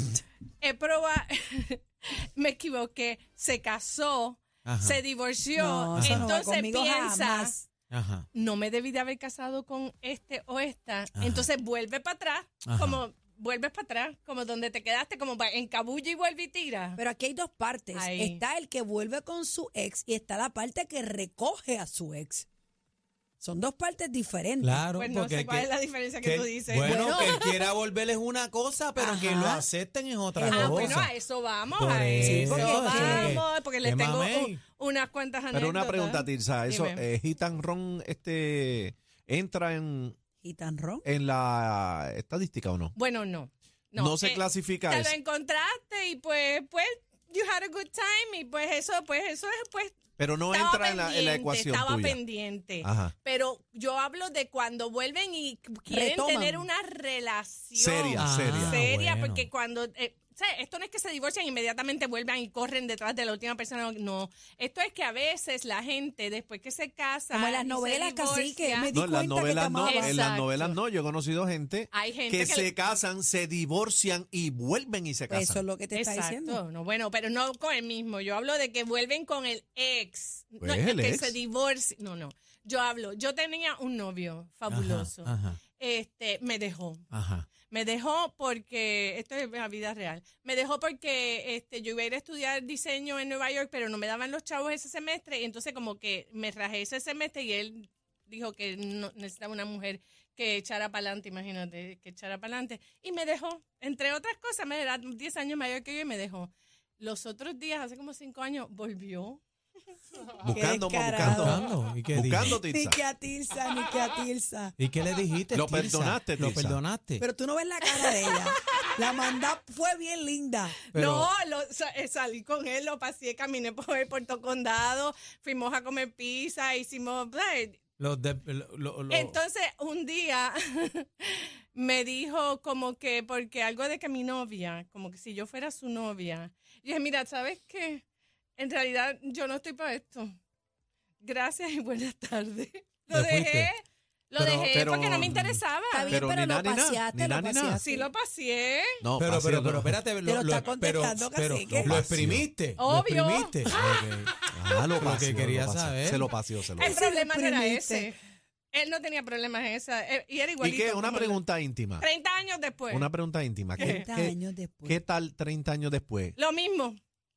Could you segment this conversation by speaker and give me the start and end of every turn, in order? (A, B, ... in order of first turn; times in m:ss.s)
0:00.6-0:07.5 A
0:04.6-0:05.0 B
0:05.6-0:07.7 C
0:05.9-0:06.3 B
0:07.9-0:08.2 B
0:08.3-0:17.0 A
0:11.1-0:11.5 B
0:12.6-0:13.0 B
0:17.0-0:22.5 C
0:17.9-0:18.4 A
0:23.4-0:24.8 C
0:24.6-0:31.1 B
0:24.9-0:27.6 A
0:26.8-0:27.4 C
0:29.0-0:29.6 C
0:30.3-0:31.0 C
0:30.4-0:37.0 A
0:31.7-0:34.6 B
0:32.2-0:33.4 C
0:35.5-0:40.2 D
0:40.4-0:41.0 C
0:41.0-0:43.0 D
0:43.0-0:50.0 A
0:44.0-0:45.1 D
0:50.2-0:52.2 D
0:50.5-1:08.9 A
0:52.8-0:53.1 D
0:55.9-0:56.7 C
0:57.7-0:58.8 D
0:58.1-0:59.5 B
1:07.3-1:10.3 C
1:08.9-1:15.6 D
1:09.8-1:10.8 A
1:11.9-1:12.7 A
1:15.3-1:16.6 C
1:15.9-1:27.0 A
1:20.6-1:21.4 D
1:24.7-1:25.6 B
1:27.1-1:27.5 B
1:27.7-1:49.4 A
1:50.4-1:53.0 D
1:50.5-1:51.6 C
1:51.2-1:52.6 B
1:52.4-1:54.7 C
1:54.8-1:57.2 B
1:55.5-1:56.8 D
1:57.2-2:00.8 C
1:58.0-1:58.3 A
2:00.9-2:01.3 B
2:00.9-2:07.8 A
2:08.0-2:09.4 B
2:09.1-2:18.0 A
2:18.6-2:20.3 A
2:21.2-2:26.2 A
2:23.1-2:23.7 B
2:24.4-2:25.6 B
2:24.7-2:27.8 D
2:25.9-2:28.1 C
2:27.8-2:29.0 A
2:29.0-2:30.0 D
2:29.2-2:34.3 B
2:30.2-2:32.2 C
2:31.7-2:32.5 D
2:32.8-2:34.0 A
2:34.5-2:37.0 D
2:34.8-2:36.3 B
2:36.8-2:38.1 C
2:36.8-2:38.2 A
2:38.7-2:41.4 A
2:40.6-2:42.1 D
2:42.0-2:43.1 A
2:42.9-2:46.4 D
2:43.8-2:45.0 C
2:43.8-2:44.0 A
2:46.4-2:47.0 A